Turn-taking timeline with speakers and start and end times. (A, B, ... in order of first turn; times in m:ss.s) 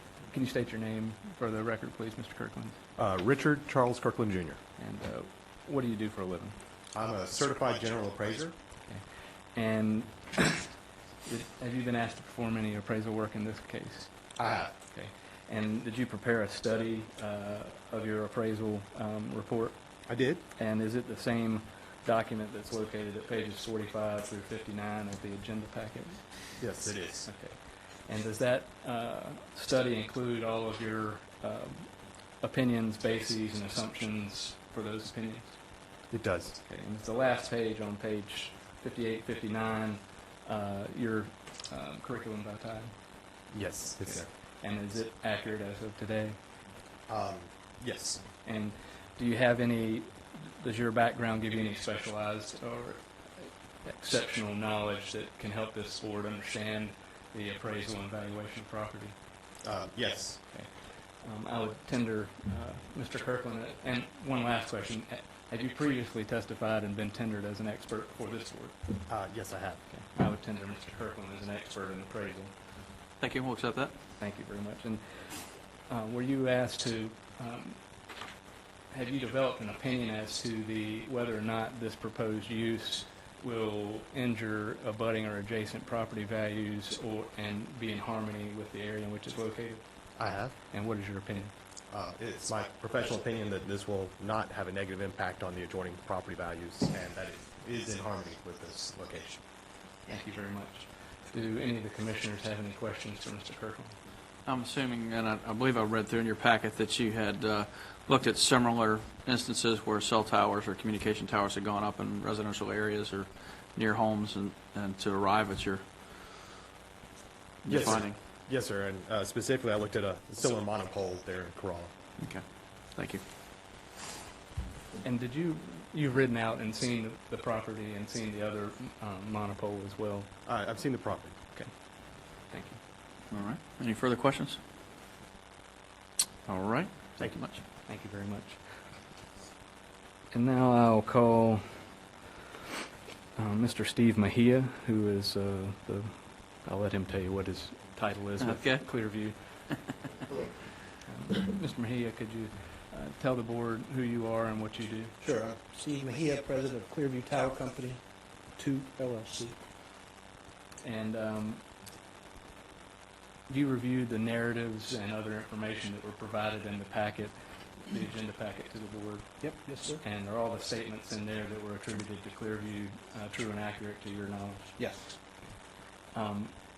0:00.3-0:02.8 A
0:03.0-0:04.6 B
0:04.8-0:06.6 A
0:06.9-0:08.6 B
0:08.8-0:10.7 A
0:11.2-0:14.1 A
0:14.4-0:14.7 B
0:14.9-0:19.8 A
0:20.1-0:20.4 B
0:20.6-0:26.5 A
0:26.6-0:27.3 B
0:27.3-0:31.9 A
0:32.4-0:35.6 A
0:36.1-0:36.6 B
0:36.6-0:42.9 A
0:43.5-0:44.3 B
0:44.0-0:46.4 A
0:47.1-0:48.2 B
0:48.4-0:59.2 A
0:59.6-1:00.4 B
1:01.2-1:08.8 A
1:09.1-1:09.8 B
1:09.9-1:12.5 A
1:13.2-1:13.9 C
1:14.2-1:15.4 A
1:15.9-1:17.8 A
1:18.9-1:29.8 A
1:30.2-1:30.6 B
1:30.7-1:31.5 A
1:31.9-1:39.4 B
1:40.1-1:44.0 A
1:44.4-1:55.8 C
1:57.6-1:58.2 C
1:57.7-2:01.9 B
2:02.2-2:02.4 C
2:03.0-2:03.2 C
2:05.0-2:10.3 A
2:10.4-2:11.4 B
2:12.4-2:12.8 A
2:13.3-2:14.6 C
2:16.5-2:17.6 C
2:17.9-2:18.6 A
2:20.3-2:21.9 A
2:23.4-2:29.4 A
2:28.4-2:28.8 C
2:31.0-2:35.2 A
2:35.2-2:38.0 D
2:38.6-2:39.6 D
2:40.8-2:41.6 A
2:43.5-2:54.7 A
2:49.4-2:50.0 D
2:54.8-2:55.2 D
2:56.1-2:56.5 A